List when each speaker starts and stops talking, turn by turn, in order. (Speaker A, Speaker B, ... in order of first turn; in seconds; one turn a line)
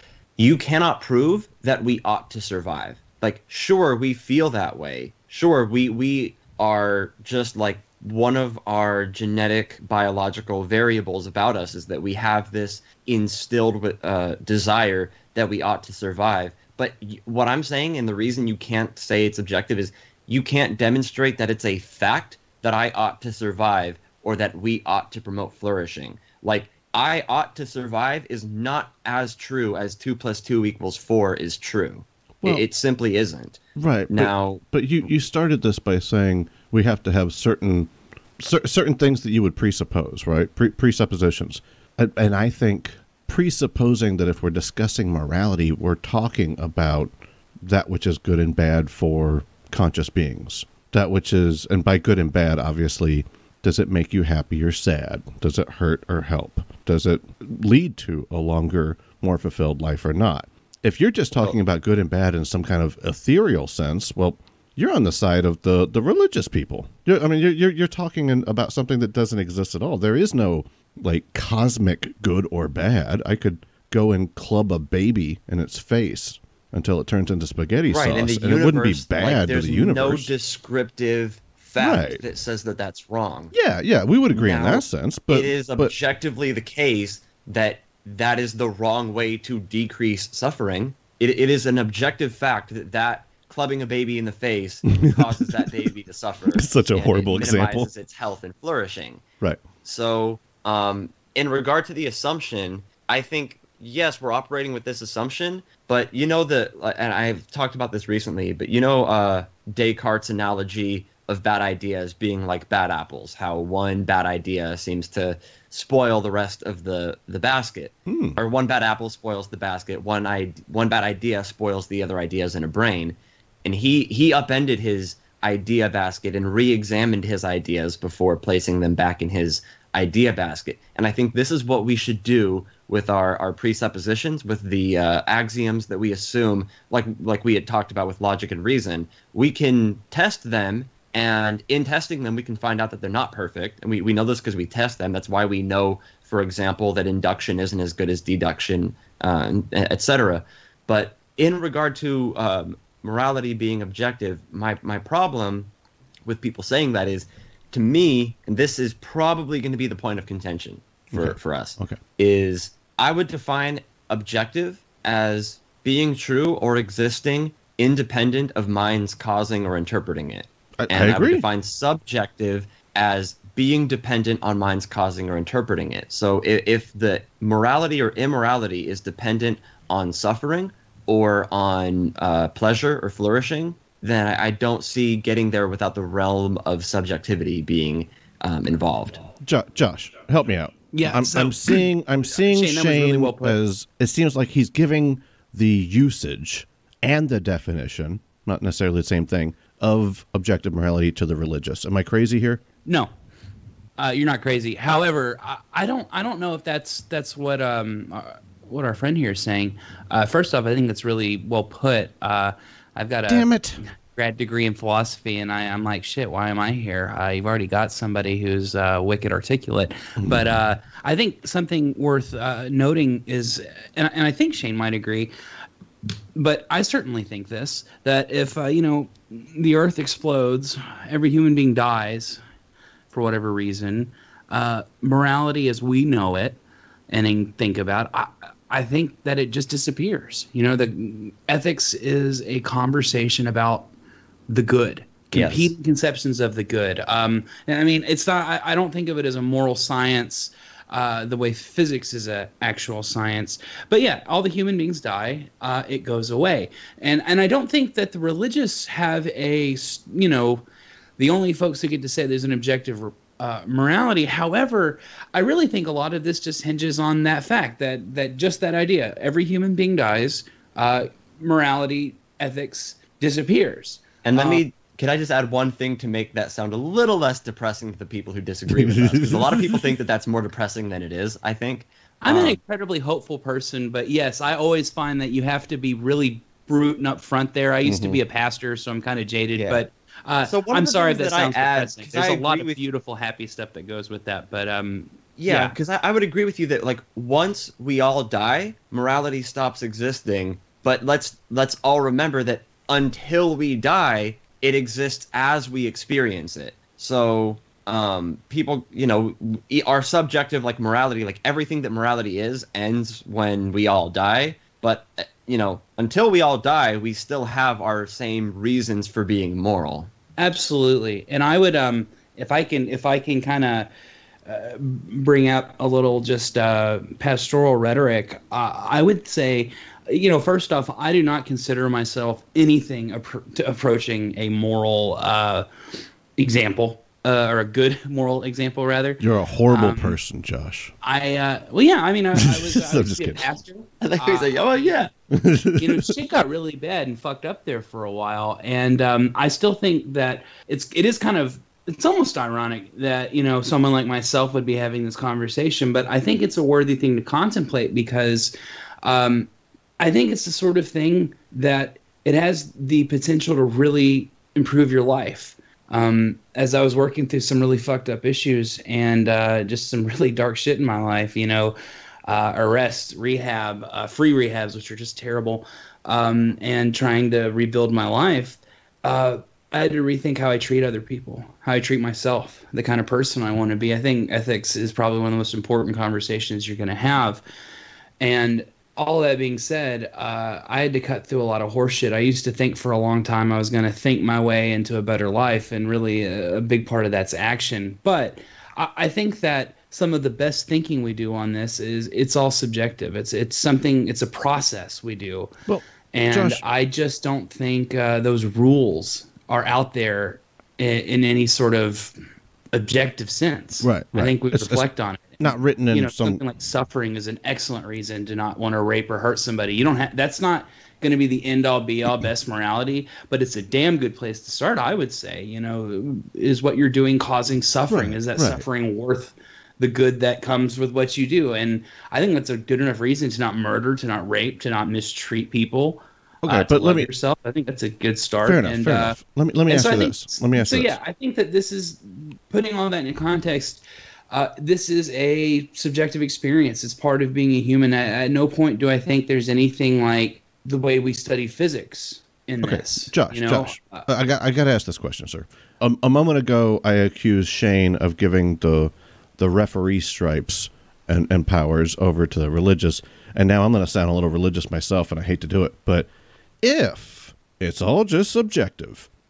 Speaker A: 0.4-34.6
Speaker B: 33.8-80.3
Speaker A: 77.9-83.5
Speaker B: 81.8-82.2
Speaker B: 83.5-85.9
Speaker A: 84.3-99.2
Speaker B: 95.0-95.5
Speaker B: 96.5-97.9
Speaker A: 99.8-155.7
Speaker B: 118.1-118.4
Speaker A: 156.2-189.2
Speaker B: 161.1-162.0
Speaker B: 170.8-171.4
Speaker B: 189.4-202.6
Speaker C: 190.9-193.6
Speaker C: 202.9-203.1
Speaker C: 204.0-225.3
Speaker B: 213.3-213.8
Speaker C: 226.3-232.4
Speaker C: 233.1-243.9
Speaker C: 244.5-260.6
Speaker A: 245.3-245.7
Speaker C: 261.2-274.6
Speaker A: 274.2-282.6
Speaker B: 278.7-279.9
Speaker C: 282.2-295.8
Speaker A: 289.6-289.8
Speaker A: 290.5-292.8
Speaker A: 295.4-320.1
Speaker C: 320.4-323.9
Speaker C: 324.5-335.7
Speaker C: 336.4-340.2
Speaker B: 339.2-340.9
Speaker C: 341.0-345.1
Speaker B: 342.4-343.4
Speaker A: 344.0-345.1
Speaker B: 345.3-346.1
Speaker C: 345.8-371.8
Speaker C: 372.3-387.4
Speaker C: 388.2-405.5
Speaker B: 405.7-406.6
Speaker C: 406.1-412.1
Speaker C: 412.7-454.1
Speaker B: 413.8-414.9
Speaker B: 415.4-416.4
Speaker B: 427.9-428.6
Speaker B: 436.4-437.1
Speaker B: 438.4-441.0
Speaker B: 452.6-466.1
Speaker B: 466.6-469.1